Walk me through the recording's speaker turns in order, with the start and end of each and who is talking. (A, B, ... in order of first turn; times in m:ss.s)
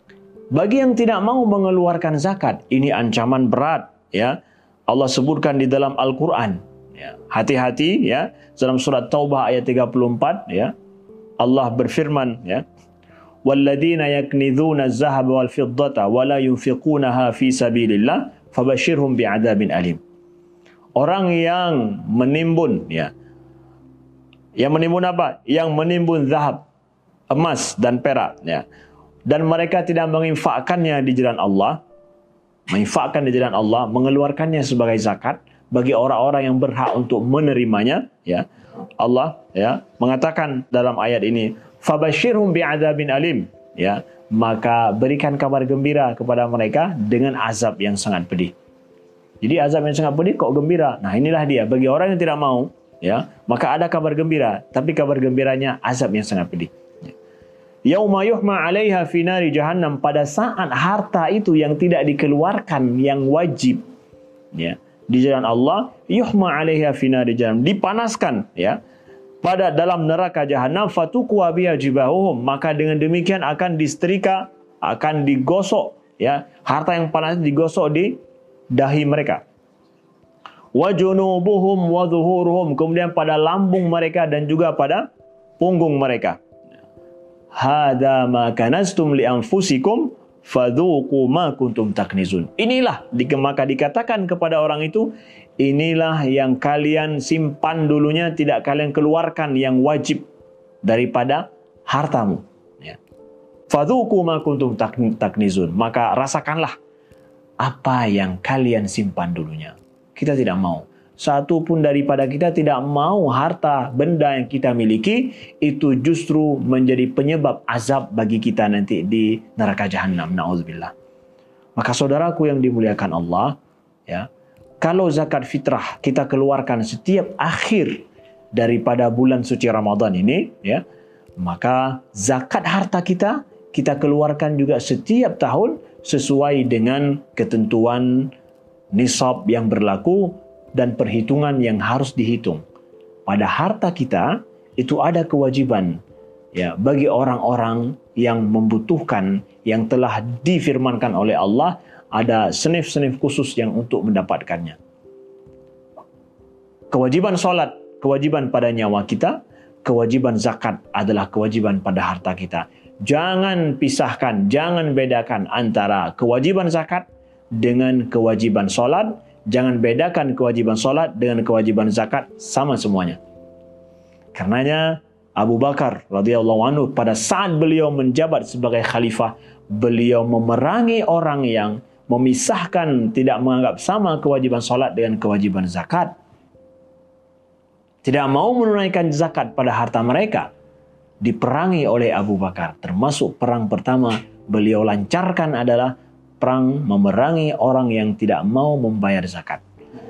0:00.5-0:10.7 A
0:11.4-0:12.6 A
0:13.4-0:20.0 A
0:21.0-0:23.1 A
0:24.6-0:26.6 A
0:27.3-0:28.6 A
0:29.2-0:31.8 A
0:32.7-0:38.5 A
0:39.0-0:48.5 A
0:49.4-0:57.1 A
0:57.8-1:03.8 A
1:04.5-1:08.8 A
1:09.4-1:19.4 A
1:20.7-1:25.1 A
1:25.6-1:26.4 A
1:27.5-1:40.2 A
1:40.8-1:43.0 A
1:43.7-1:46.7 A
1:47.6-2:00.9 A
2:01.8-2:04.3 A
2:04.8-2:10.8 A
2:11.4-2:18.3 A
2:18.9-2:22.6 A
2:23.2-2:26.0 A
2:26.5-2:34.8 A
2:36.9-2:53.2 A
2:54.3-3:06.1 A
3:08.0-3:10.5 A
3:11.2-3:19.6 A